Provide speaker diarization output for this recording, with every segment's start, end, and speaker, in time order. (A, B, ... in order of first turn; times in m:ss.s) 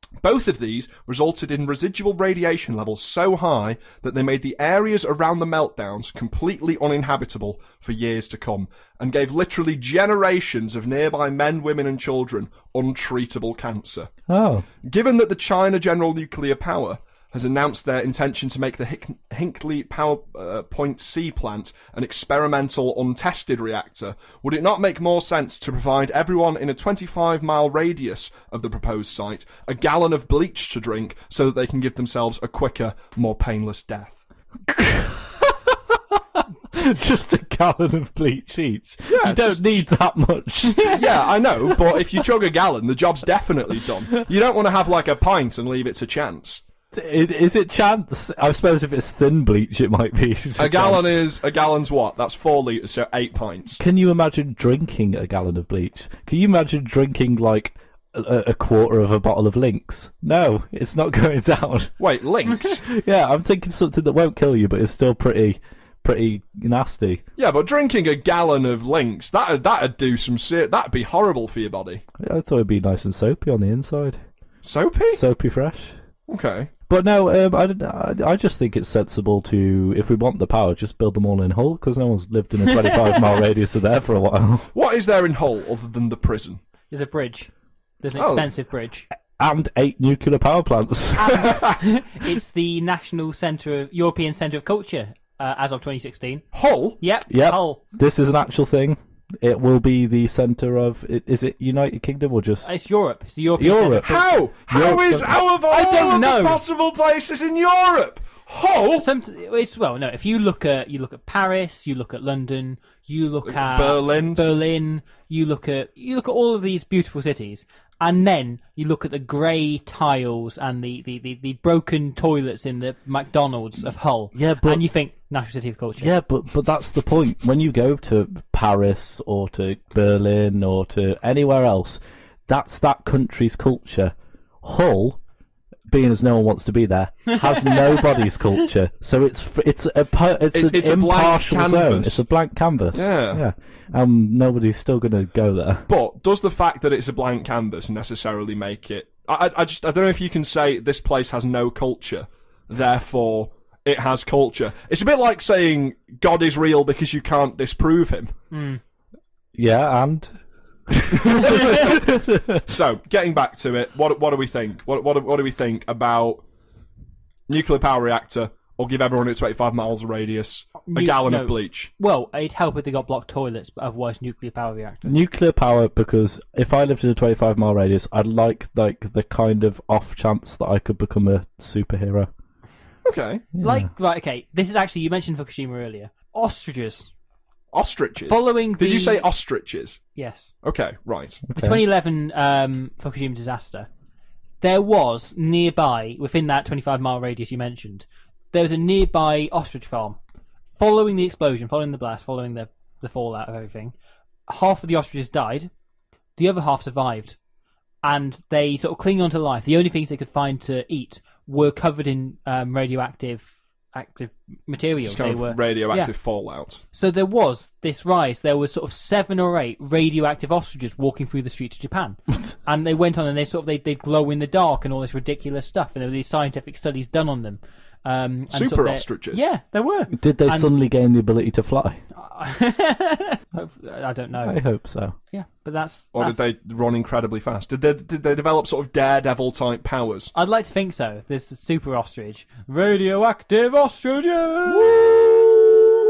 0:00.2-0:14.1 A
0:14.3-0:14.6 B
0:14.8-0:34.2 A
0:34.7-0:41.0 B
0:39.1-0:39.8 A
0:40.7-0:41.0 C
0:40.8-0:46.6 A
0:46.9-0:51.2 B
0:50.6-0:53.8 A
0:53.8-1:01.9 B
1:02.0-1:02.8 A
1:02.6-1:07.2 B
1:07.4-1:12.0 A
1:12.2-1:14.2 B
1:14.6-1:15.2 A
1:15.1-1:16.0 B
1:16.3-1:16.7 A
1:16.9-1:24.7 B
1:22.7-1:23.2 C
1:24.7-1:26.6 A
1:26.9-1:27.5 C
1:28.0-1:29.1 C
1:28.2-1:28.5 A
1:29.4-1:31.5 B
1:31.2-1:36.4 C
1:31.4-1:31.8 A
1:36.5-1:37.0 A
1:37.0-1:37.8 C
1:37.3-1:42.7 B
1:42.6-1:44.3 C
1:43.6-1:45.4 B
1:44.0-1:49.1 A
1:45.7-1:46.6 C
1:49.0-2:06.1 C
1:53.4-1:54.5 A
2:04.3-2:04.8 B
2:06.0-2:15.2 B
2:15.9-2:25.9 B
2:17.3-2:18.0 C
2:20.5-2:22.2 A
2:22.9-2:23.4 A
2:25.9-2:38.3 A
2:38.5-2:38.8 C
2:39.5-2:40.4 B
2:40.9-2:42.6 B
2:41.2-2:42.0 A
2:42.6-2:46.4 A
2:47.5-2:51.9 A
2:50.9-2:55.2 C
2:55.0-3:02.3 B
3:03.0-3:03.5 A
3:03.6-3:03.8 B
3:03.6-3:07.1 C
3:07.7-3:10.0 A
3:08.3-3:09.2 C
3:10.2-3:10.5 C
3:10.6-3:11.4 A
3:11.5-3:11.8 B
3:11.5-3:13.9 C
3:14.6-3:20.2 C
3:20.8-3:23.9 C
3:24.5-3:25.7 C
3:26.4-3:27.4 C
3:28.0-3:36.1 C
3:35.0-3:36.8 A
3:36.9-3:50.7 C
3:48.5-3:49.4 A
3:50.1-3:52.0 B
3:52.1-3:54.6 C
3:54.4-3:55.1 B
3:55.3-3:56.4 C
3:56.1-4:00.3 A
4:00.3-4:04.9 C
4:04.6-4:05.8 A